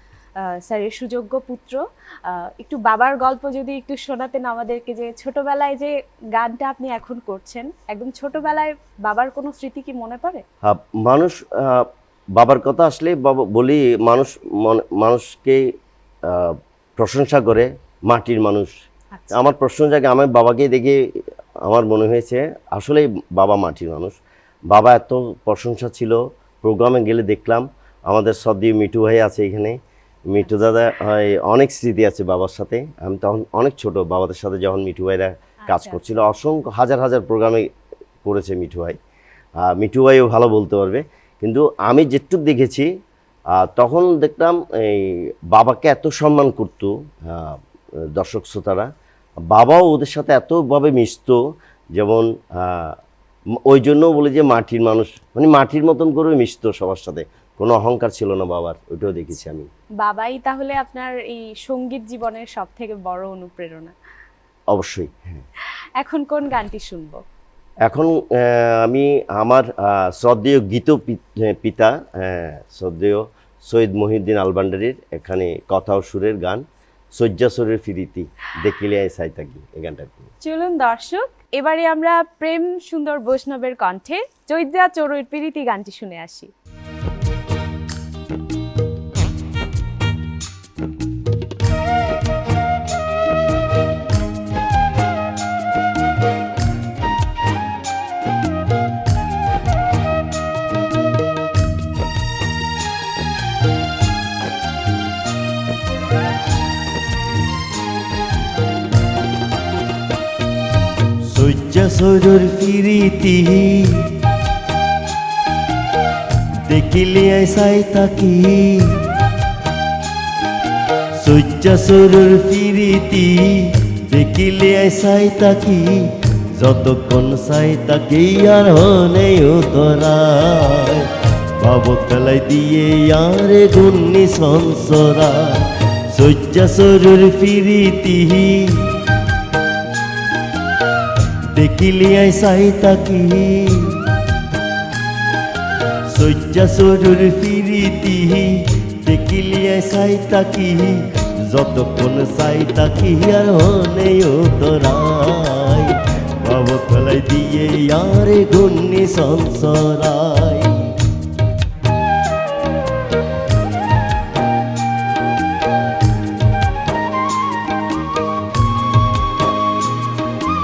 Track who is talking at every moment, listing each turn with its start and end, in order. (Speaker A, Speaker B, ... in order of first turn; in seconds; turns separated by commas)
Speaker A: 0.4-10.4, Speaker B: 10.6-15.6, Speaker B: 16.2-18.7, Speaker A: 19.1-19.4, Speaker B: 19.3-21.0, Speaker B: 21.6-24.2, Speaker B: 24.7-37.7, Speaker A: 35.7-36.0, Speaker B: 38.2-39.0, Speaker B: 39.6-42.9, Speaker B: 43.5-47.6, Speaker B: 48.1-48.9, Speaker B: 49.5-51.4, Speaker B: 51.9-53.0, Speaker B: 53.6-59.7, Speaker A: 60.0-63.9, Speaker B: 64.7-65.4, Speaker A: 66.0-67.2, Speaker B: 67.8-80.3, Speaker A: 80.4-86.5, Speaker B: 111.3-114.1, Speaker B: 116.7-118.9, Speaker B: 121.2-131.1, Speaker B: 131.6-138.9, Speaker B: 141.5-143.9, Speaker B: 146.1-160.9